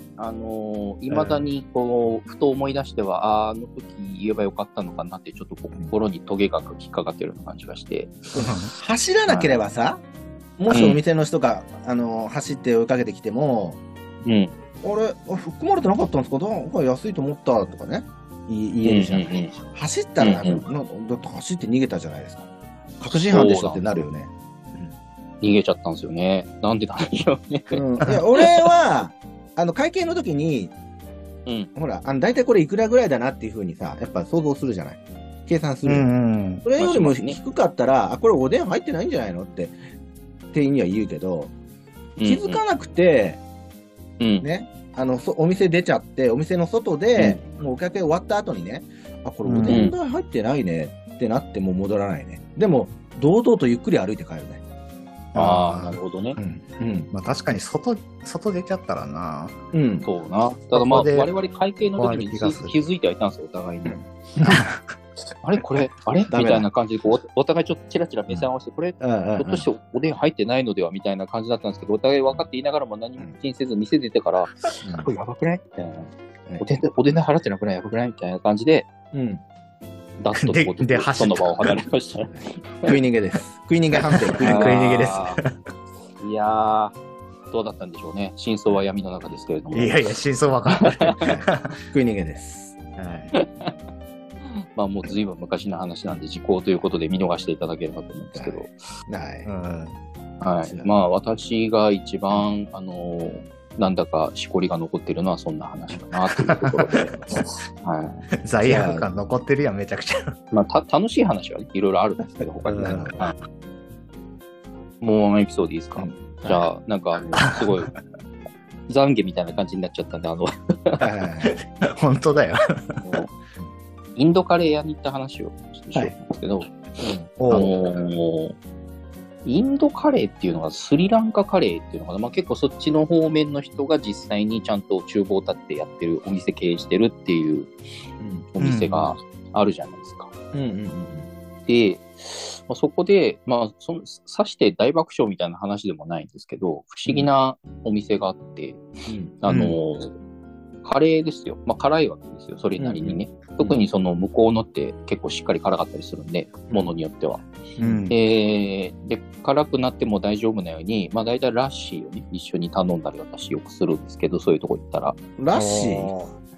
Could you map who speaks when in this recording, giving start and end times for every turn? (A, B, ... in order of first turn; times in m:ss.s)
0:00.2-0:08.6 A
0:01.1-0:01.4 B
0:08.4-0:10.0 C
0:08.4-0:08.7 B
0:09.3-0:09.6 A
0:10.6-0:13.8 C
0:10.7-0:11.0 A
0:14.2-0:14.5 A
0:14.8-0:22.5 C
0:18.8-0:19.5 A
0:20.2-0:20.6 A
0:23.0-0:24.9 C
0:23.1-0:23.8 A
0:25.4-0:27.8 A
0:27.7-0:30.7 C
0:28.3-0:28.7 A
0:31.7-0:36.1 C
0:35.8-0:36.6 B
0:36.6-0:39.8 C
0:36.8-0:37.4 A
0:40.5-0:41.5 C
0:42.2-0:42.6 A
0:42.2-0:43.4 C
0:44.2-0:44.5 A
0:44.4-0:54.6 C
0:47.2-0:47.4 A
0:49.4-0:49.9 B
0:49.7-0:49.9 A
0:55.3-0:56.4 A
0:55.4-0:57.1 C
0:57.1-0:59.5 B
0:59.7-1:00.1 C
1:00.0-1:04.0 A
1:00.7-1:01.3 B
1:02.0-1:02.8 B
1:03.8-1:04.6 C
1:04.5-1:04.8 B
1:05.4-1:18.9 A
1:06.3-1:06.7 C
1:09.0-1:09.6 C
1:14.8-1:15.1 C
1:19.1-1:19.4 C
1:20.2-1:22.9 A
1:20.4-1:21.8 B
1:22.8-1:25.2 C
1:24.2-1:25.5 B
1:24.4-1:25.4 A
1:26.2-1:26.9 A
1:27.5-1:30.0 A
1:29.7-1:31.8 B
1:30.7-1:31.1 A
1:31.2-1:32.8 C
1:33.0-1:33.3 B
1:33.3-1:33.7 A
1:34.5-1:38.7 A
1:38.3-1:39.5 C
1:39.4-1:39.9 B
1:40.4-1:48.2 A
1:40.6-1:40.9 C
1:46.4-1:46.7 B
1:48.4-1:50.4 B
1:48.6-1:49.0 C
1:50.5-1:53.3 A
1:52.7-1:53.1 B
1:52.7-1:53.3 C
1:55.0-1:57.9 A
1:56.0-1:56.6 C
1:58.9-2:01.0 A
2:01.0-2:01.6 C
2:01.4-2:03.0 B
2:03.0-2:03.3 A
2:04.2-2:06.8 A
2:07.0-2:07.3 C
2:07.4-2:07.7 B
2:07.5-2:08.6 A
2:09.4-2:17.7 A
2:18.2-2:18.5 C
2:18.5-2:20.3 A
2:18.6-2:19.1 B
2:20.5-2:21.3 C
2:21.7-2:28.8 A
2:29.1-2:29.4 C
2:29.4-2:30.1 A
2:29.5-2:29.8 B
2:30.8-2:37.4 A
2:32.8-2:33.8 C
2:37.8-2:38.1 C
2:37.8-2:38.2 B
2:38.1-2:45.2 A
2:45.4-2:46.1 C
2:45.5-2:46.3 B